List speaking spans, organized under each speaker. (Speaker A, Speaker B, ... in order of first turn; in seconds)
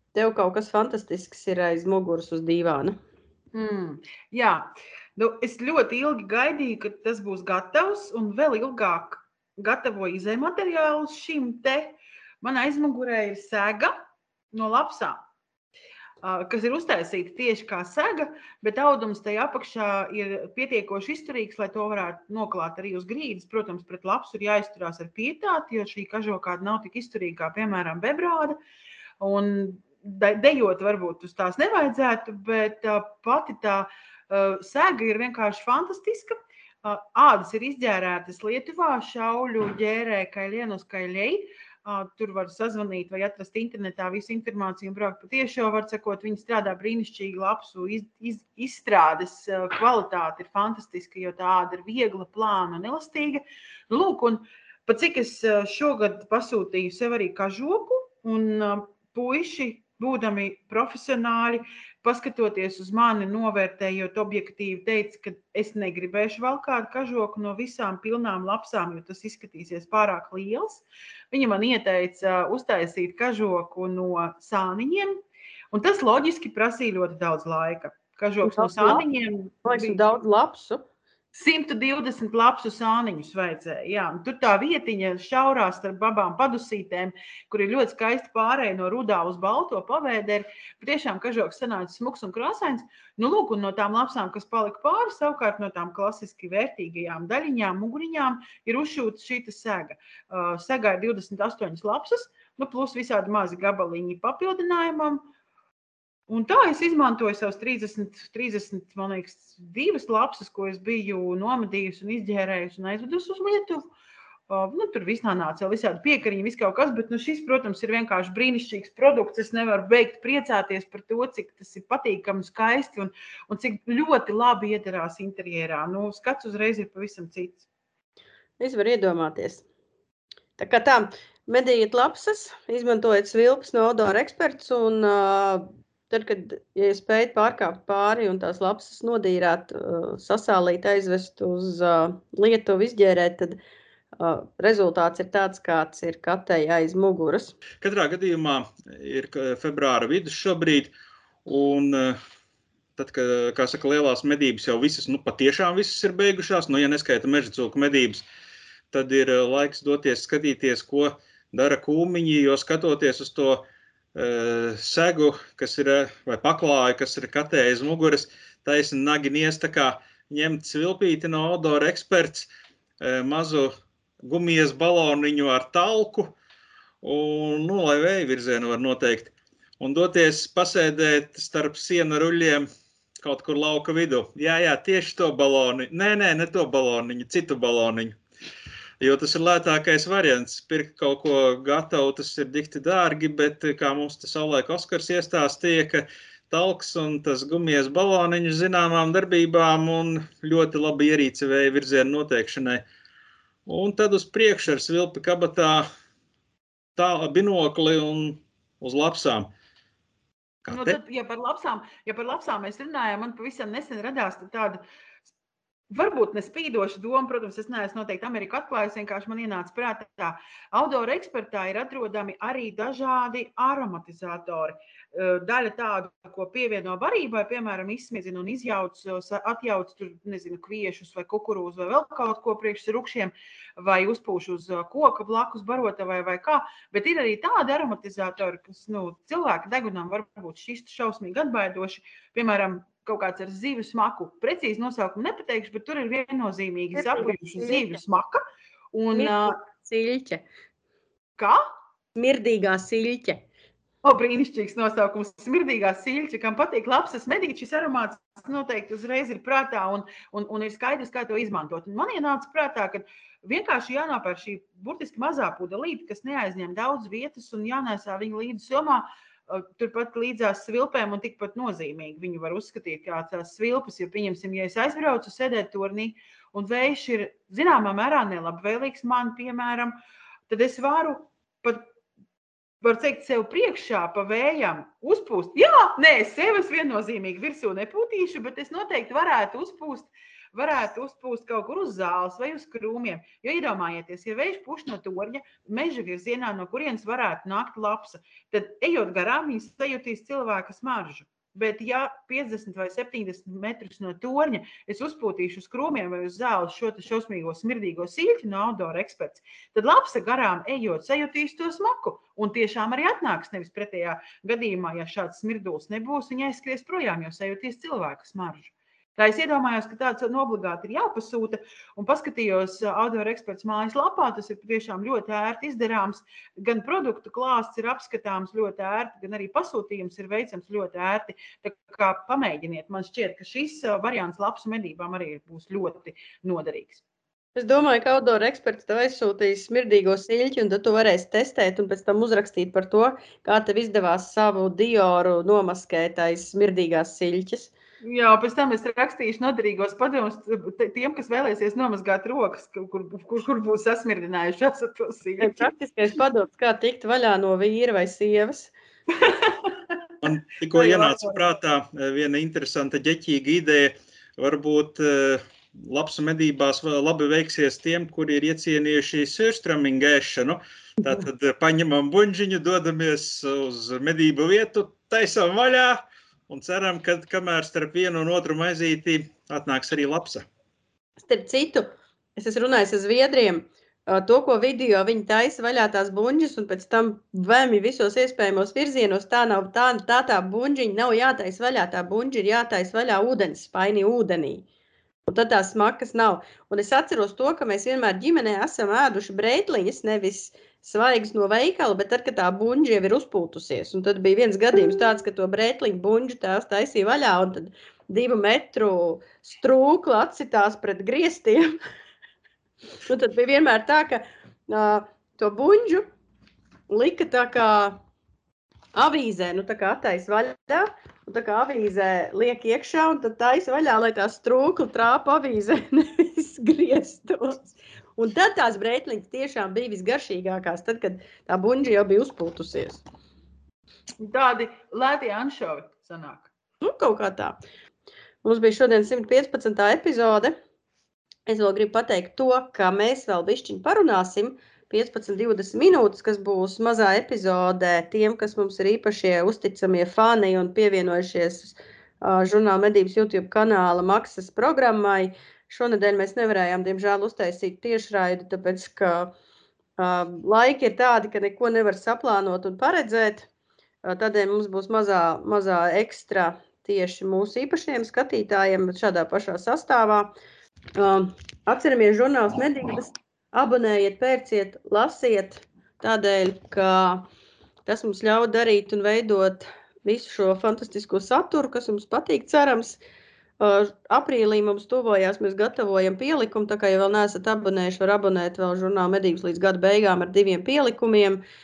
Speaker A: 0.1-3.0, 78.4-79.0, 79.6-80.8, 128.6-129.6, 130.6-143.6, 144.2-147.6, 246.9-248.0, 249.1-250.5, 252.2-253.4, 337.6-347.7, 355.4-358.7, 381.2-394.6, 395.3-411.8, 413.1-416.1, 416.9-418.0, 418.9-433.0, 436.8-437.6, 438.4-440.6, 441.5-459.3, 460.0-463.5, 464.0-470.3, 471.0-477.3, 477.9-483.0, 483.6-491.4
Speaker B: 3.5-14.0, 14.5-15.2, 16.2-28.6, 29.2-80.0, 81.3-105.3, 106.3-113.9, 114.5-127.7, 210.7-214.8, 215.9-248.4, 248.9-249.6, 254.0-280.0, 280.5-281.9, 282.8-337.0, 348.0-355.7, 359.2-359.6, 360.7-361.4, 434.2-436.5
Speaker C: 147.8-150.9, 151.5-152.2, 153.0-158.2, 158.9-163.6, 164.2-172.5, 173.0-173.7, 174.2-176.3, 177.0-182.7, 183.2-188.2, 189.0-202.8, 203.7-205.9, 207.0-209.5, 210.7-211.0, 360.2-380.5